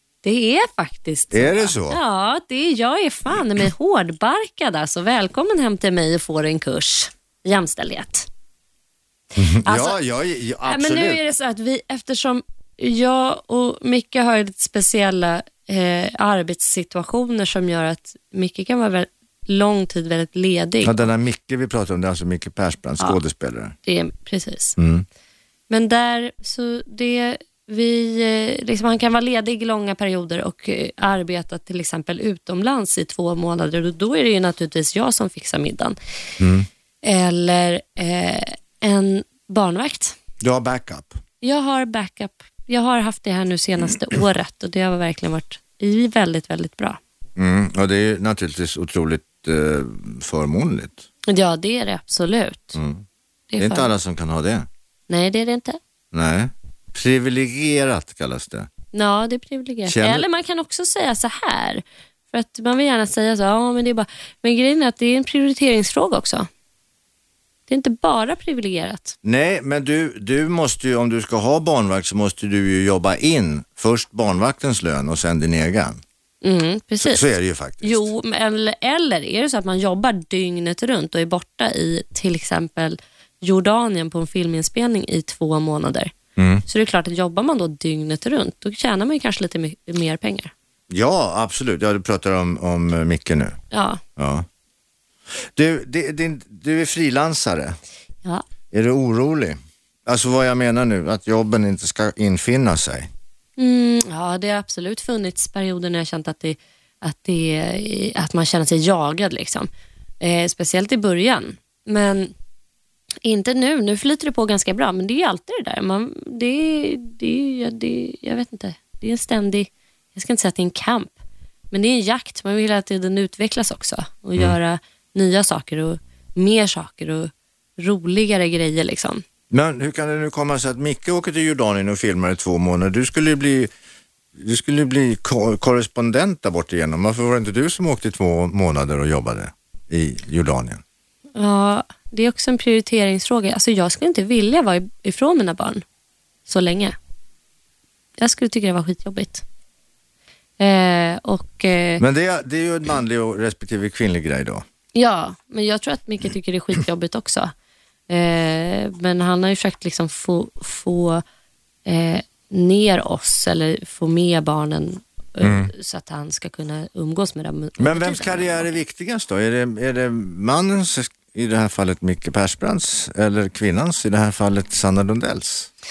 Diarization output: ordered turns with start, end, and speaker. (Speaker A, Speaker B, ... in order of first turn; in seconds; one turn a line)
Speaker A: 0.2-8.3
Speaker B: 1.3-2.0
Speaker B: 9.3-11.2
Speaker A: 9.6-10.0
Speaker A: 10.7-21.1
Speaker B: 20.8-23.7
Speaker A: 23.8-24.8
Speaker B: 24.8-25.1
Speaker A: 25.7-35.9
Speaker B: 36.4-36.7
Speaker A: 37.0-40.1
Speaker B: 40.4-41.2
Speaker A: 41.4-47.0
Speaker B: 47.4-51.0
Speaker A: 51.3-52.8
Speaker B: 52.7-53.0
Speaker A: 53.5-53.9
Speaker B: 53.6-54.7
Speaker A: 55.1-55.8
Speaker B: 56.1-58.7
Speaker A: 58.9-66.5
Speaker B: 59.9-60.2
Speaker A: 67.7-69.2
Speaker B: 69.2-76.0
Speaker A: 76.4-77.2
Speaker B: 77.0-78.1
Speaker A: 77.8-86.1
Speaker B: 86.3-86.6
Speaker A: 86.6-90.5
Speaker B: 90.9-93.6
Speaker A: 93.7-94.0
Speaker B: 94.2-94.5
Speaker B: 95.4-97.8
Speaker B: 98.7-103.1
Speaker A: 103.6-109.7
Speaker A: 110.2-112.3
Speaker A: 113.2-121.2
Speaker A: 121.7-129.2
Speaker B: 129.5-133.7
Speaker B: 134.3-140.8
Speaker A: 141.3-145.8
Speaker A: 146.4-146.9
Speaker A: 148.2-149.4
Speaker A: 150.6-152.0
Speaker B: 152.0-154.6
Speaker A: 154.9-157.5
Speaker A: 158.1-161.2
Speaker A: 161.8-168.7
Speaker B: 165.4-165.7
Speaker B: 167.8-175.7